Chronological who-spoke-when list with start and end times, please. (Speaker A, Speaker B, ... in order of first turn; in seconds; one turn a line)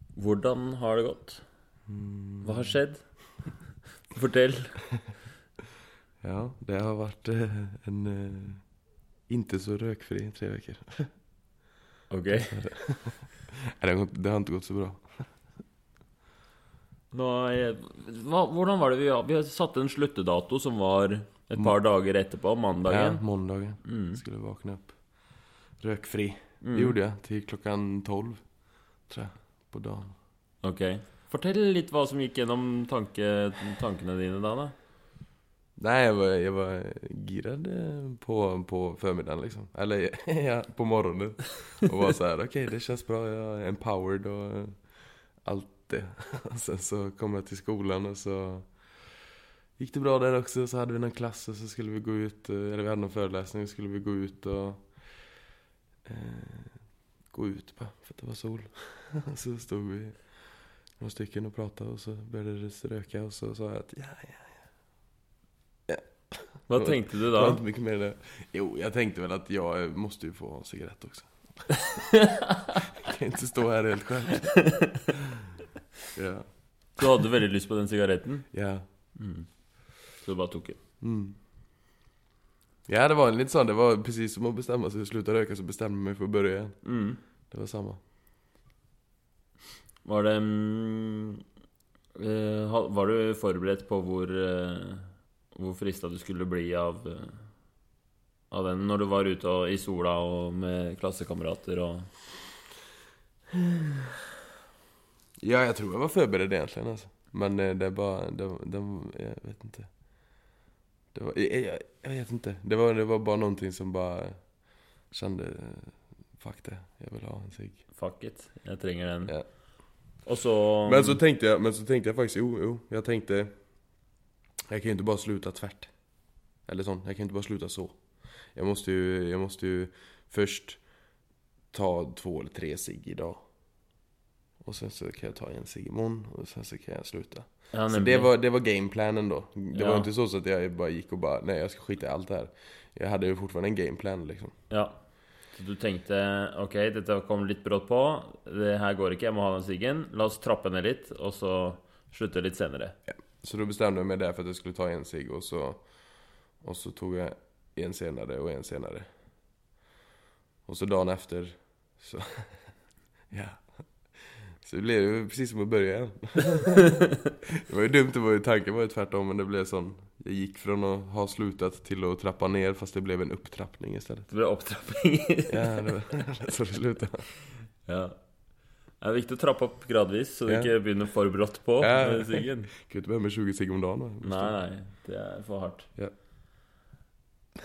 Speaker A: 0.2-1.4
Speaker B: 1.9-2.8
Speaker A: 2.4-3.3
Speaker A: 4.1-4.9
Speaker B: 6.2-8.7
Speaker B: 9.3-11.1
Speaker A: 12.1-12.7
Speaker B: 12.3-15.4
Speaker A: 17.1-23.3
Speaker B: 22.9-30.1
Speaker A: 23.8-24.2
Speaker A: 26.6-27.0
Speaker A: 30.6-34.7
Speaker B: 35.8-49.2
Speaker B: 49.8-55.4
Speaker B: 56.0-64.7
Speaker B: 65.9-72.0
Speaker A: 66.7-67.6
Speaker A: 72.0-72.5
Speaker B: 73.0-74.7
Speaker A: 74.6-75.0
Speaker B: 76.1-76.5
Speaker A: 77.0-78.6
Speaker B: 78.5-78.8
Speaker A: 79.1-80.8
Speaker B: 81.0-81.4
Speaker B: 82.9-86.8
Speaker A: 86.8-87.2
Speaker B: 87.5-88.0
Speaker A: 90.0-91.4
Speaker A: 92.2-97.5
Speaker A: 98.5-102.1
Speaker B: 105.4-109.9
Speaker B: 111.1-117.9
Speaker A: 117.9-121.2
Speaker B: 120.8-124.0
Speaker B: 124.7-130.9
Speaker B: 131.7-133.5
Speaker B: 134.6-144.6
Speaker A: 137.7-138.3
Speaker A: 139.7-140.1
Speaker A: 144.7-153.0
Speaker B: 153.1-159.1
Speaker B: 160.7-162.7
Speaker B: 163.3-166.9
Speaker B: 167.5-174.3
Speaker A: 174.3-176.0
Speaker B: 175.5-177.3
Speaker A: 177.8-178.2
Speaker A: 179.0-182.7
Speaker B: 180.5-180.7
Speaker B: 181.8-184.6
Speaker A: 184.2-185.9